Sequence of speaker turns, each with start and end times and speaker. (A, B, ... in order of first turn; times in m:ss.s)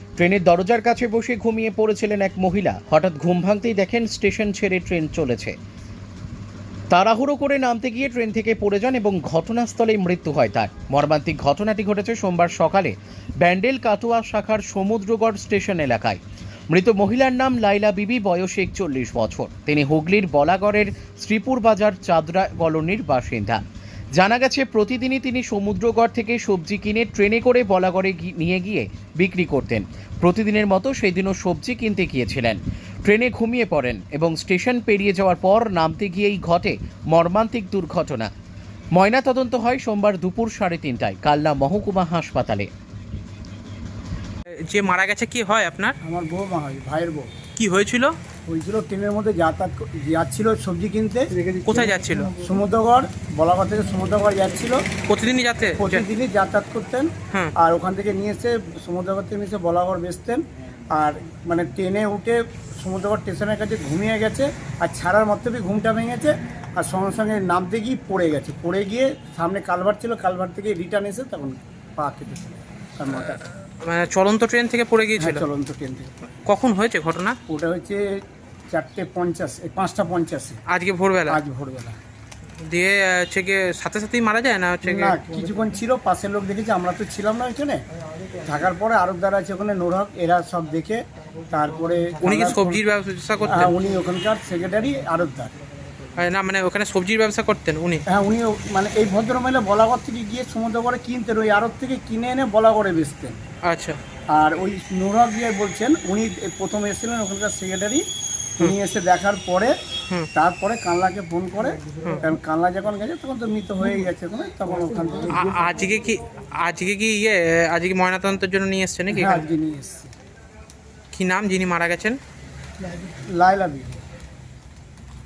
0:00.2-0:05.6 A
0:06.9-0:23.6 A
0:24.2-0:38.3 A
0:39.0-0:42.7 A
0:44.6-0:46.0 B
0:46.0-0:47.3 C
0:47.6-0:48.2 B
0:48.5-0:51.4 C
0:51.6-0:52.3 B
0:52.4-0:54.8 C
0:55.1-0:56.0 B
0:55.8-1:13.5 C
1:13.2-1:15.4 B
1:15.2-1:16.1 C
1:16.4-1:17.4 B
1:17.5-1:20.6 C
1:20.7-1:21.4 B
1:21.3-1:22.0 C
1:22.6-1:25.2 B
1:24.8-1:27.8 C
1:28.4-1:32.8 C
1:32.2-1:33.7 B
1:33.5-1:35.5 C
1:36.2-1:38.0 B
1:38.1-1:43.4 C
1:43.6-1:44.0 B
1:44.3-1:48.0 C
1:48.6-1:49.7 C
1:50.3-1:55.5 C
1:55.3-1:59.5 B
1:59.1-2:00.1 C
2:01.1-2:02.2 B
2:03.2-2:04.0 C